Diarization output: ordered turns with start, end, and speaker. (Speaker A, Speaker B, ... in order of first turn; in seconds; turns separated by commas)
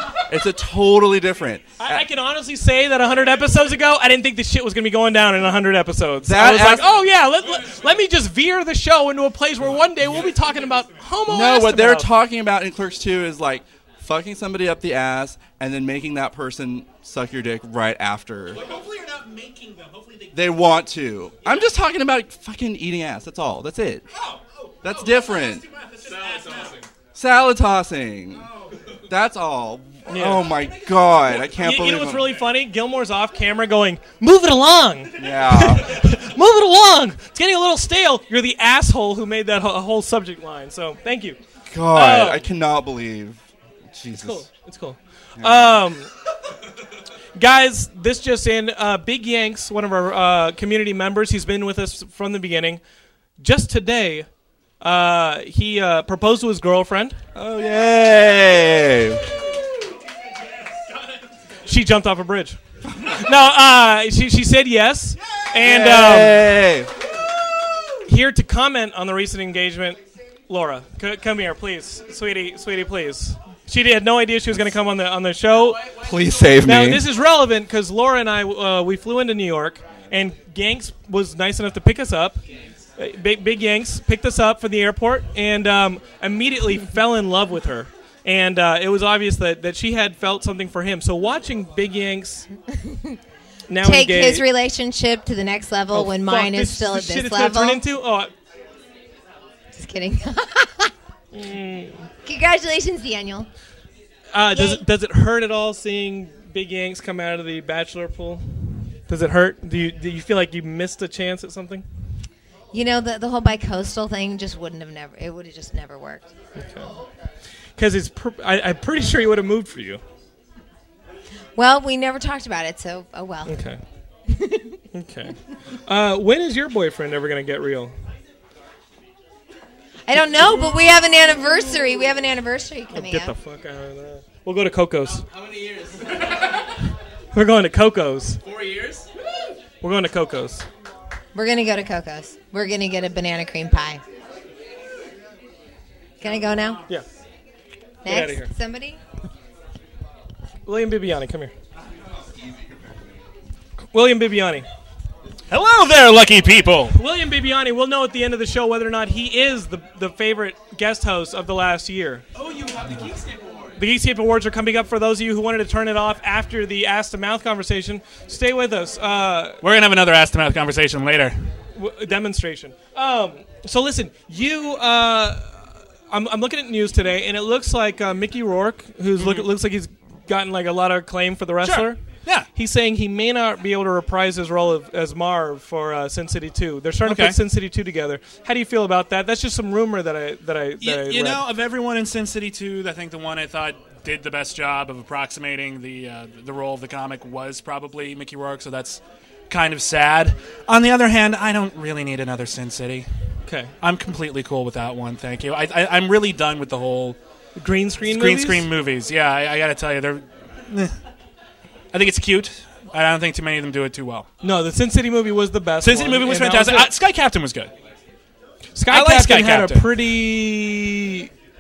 Speaker A: 0.3-2.1, Speaker B: 1.8-12.1, Speaker A: 6.2-7.0, Speaker A: 11.3-18.6, Speaker C: 18.6-20.3, Speaker A: 20.3-24.1, Speaker C: 24.2-26.8, Speaker A: 24.8-25.7, Speaker A: 27.1-28.5, Speaker A: 29.1-32.4, Speaker B: 30.1-30.5, Speaker B: 31.4-41.4, Speaker A: 35.2-36.0, Speaker A: 41.7-43.4, Speaker B: 41.9-42.4, Speaker A: 43.9-44.5, Speaker B: 44.2-46.1, Speaker A: 45.4-45.8, Speaker B: 47.4-52.8, Speaker B: 53.4-54.3, Speaker B: 54.8-57.2, Speaker A: 57.4-59.3, Speaker B: 61.6-66.5, Speaker A: 65.6-66.9, Speaker B: 68.1-75.9, Speaker C: 75.6-76.6, Speaker A: 75.9-77.1, Speaker B: 76.6-82.4, Speaker B: 83.0-92.5, Speaker D: 92.9-93.2, Speaker B: 93.7-94.5, Speaker D: 93.8-97.8, Speaker B: 95.9-98.3, Speaker D: 99.7-100.9, Speaker B: 101.3-102.1, Speaker D: 102.2-103.5, Speaker B: 104.3-108.4, Speaker D: 104.5-104.8, Speaker B: 109.1-111.8, Speaker D: 112.7-116.3, Speaker B: 116.6-116.9, Speaker B: 117.8-120.0, Speaker D: 121.6-123.6, Speaker B: 123.5-123.8, Speaker D: 124.3-124.7, Speaker B: 124.9-127.9, Speaker D: 130.1-133.3, Speaker B: 132.9-135.3, Speaker C: 135.3-136.3, Speaker B: 137.3-138.4, Speaker C: 138.4-139.1, Speaker B: 139.8-140.7, Speaker D: 141.3-144.0, Speaker D: 146.2-146.8, Speaker D: 148.0-149.0, Speaker B: 148.1-148.5, Speaker B: 150.7-151.5, Speaker B: 153.9-154.7, Speaker E: 155.5-157.0, Speaker B: 156.9-162.2, Speaker C: 162.4-163.7, Speaker B: 163.8-169.6, Speaker E: 169.6-171.4, Speaker B: 171.8-182.0, Speaker E: 179.2-179.5, Speaker E: 181.6-182.5, Speaker B: 182.6-191.5, Speaker E: 187.0-187.4, Speaker E: 190.8-203.1, Speaker B: 203.5-203.7, Speaker E: 203.8-207.2, Speaker B: 207.6-208.7, Speaker E: 208.1-210.9, Speaker E: 211.9-214.3, Speaker B: 214.4-216.9, Speaker E: 215.8-217.7, Speaker B: 218.8-221.3, Speaker E: 218.9-219.9